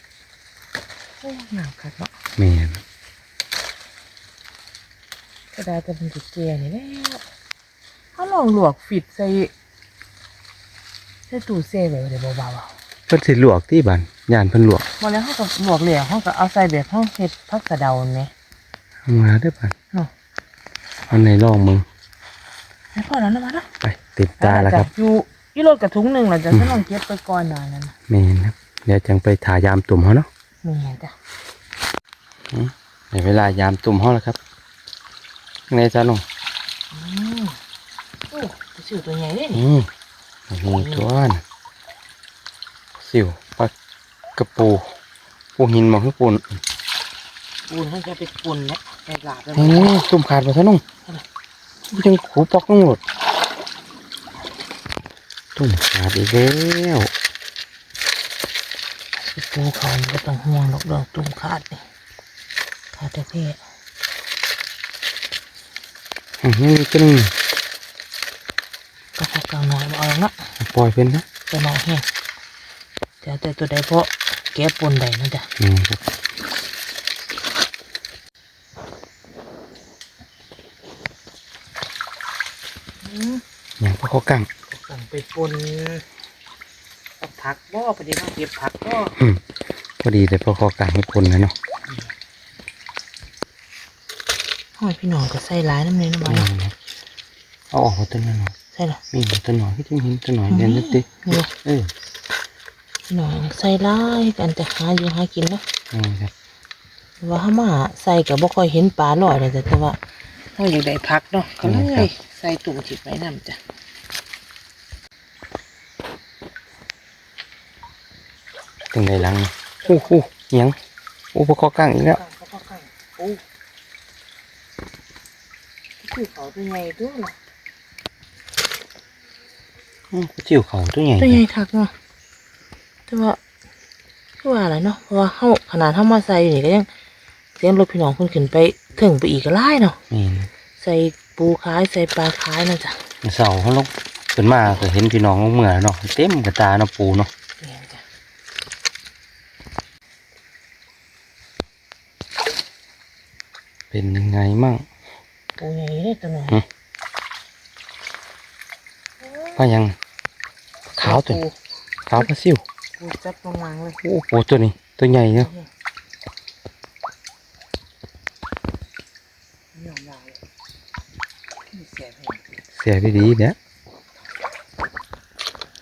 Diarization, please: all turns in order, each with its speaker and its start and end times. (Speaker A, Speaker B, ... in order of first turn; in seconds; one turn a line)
Speaker A: 1.2-2.1
Speaker B: 2.4-2.8
Speaker A: 5.5-7.2
Speaker A: 8.2-9.5
Speaker A: 11.3-12.7
Speaker B: 13.1-14.9
Speaker A: 15.0-18.3
Speaker B: 19.1-19.7
Speaker B: 21.1-21.9
Speaker A: 22.9-23.7
Speaker B: 23.8-24.9
Speaker A: 24.4-27.9
Speaker B: 26.5-26.8
Speaker B: 28.1-30.3
Speaker A: 30.6-31.1
Speaker B: 32.5-34.4
Speaker B: 35.7-36.2
Speaker A: 36.9-37.6
Speaker A: 38.3-39.6
Speaker B: 39.5-39.9
Speaker B: 40.5-41.4
Speaker A: 40.7-41.1
Speaker B: 43.0-43.7
Speaker B: 44.4-44.9
Speaker B: 45.6-46.6
Speaker A: 47.7-50.0
Speaker B: 49.5-50.8
Speaker B: 51.9-53.0
Speaker B: 55.6-57.1
Speaker A: 59.3-61.8
Speaker A: 63.0-63.6
Speaker B: 66.4-67.3
Speaker A: 69.2-70.3
Speaker B: 70.6-71.2
Speaker A: 71.5-72.0
Speaker A: 73.2-75.5
Speaker B: 75.6-76.0
Speaker A: 83.0-83.4
Speaker B: 83.8-84.5
Speaker A: 84.7-86.0
Speaker A: 87.2-89.2
Speaker B: 90.0-91.5
Speaker A: 94.8-96.5
Speaker B: 96.2-96.7
Speaker B: 97.7-98.5
Speaker A: 98.7-99.0
Speaker B: 99.1-101.9
Speaker A: 100.5-101.5
Speaker A: 103.1-105.6
Speaker B: 105.9-106.3
Speaker A: 107.2-110.0
Speaker A: 110.5-113.6
Speaker B: 111.6-112.1
Speaker B: 118.9-120.8
Speaker B: 121.3-122.2
Speaker A: 122.1-123.4
Speaker A: 126.0-127.4
Speaker B: 130.1-131.4
Speaker A: 131.2-131.9
Speaker A: 133.1-133.4
Speaker A: 134.4-136.9
Speaker A: 137.6-140.0
Speaker B: 140.1-140.5
Speaker A: 140.8-143.0
Speaker B: 143.2-147.3
Speaker A: 147.6-148.0
Speaker B: 153.9-154.8
Speaker A: 155.6-156.6
Speaker A: 159.2-159.6
Speaker B: 159.6-159.9
Speaker B: 161.0-161.4
Speaker A: 161.0-161.6
Speaker B: 162.1-162.6
Speaker A: 163.0-164.0
Speaker B: 164.0-165.5
Speaker A: 165.4-165.7
Speaker A: 169.8-170.4
Speaker A: 171.7-172.4
Speaker B: 172.7-173.6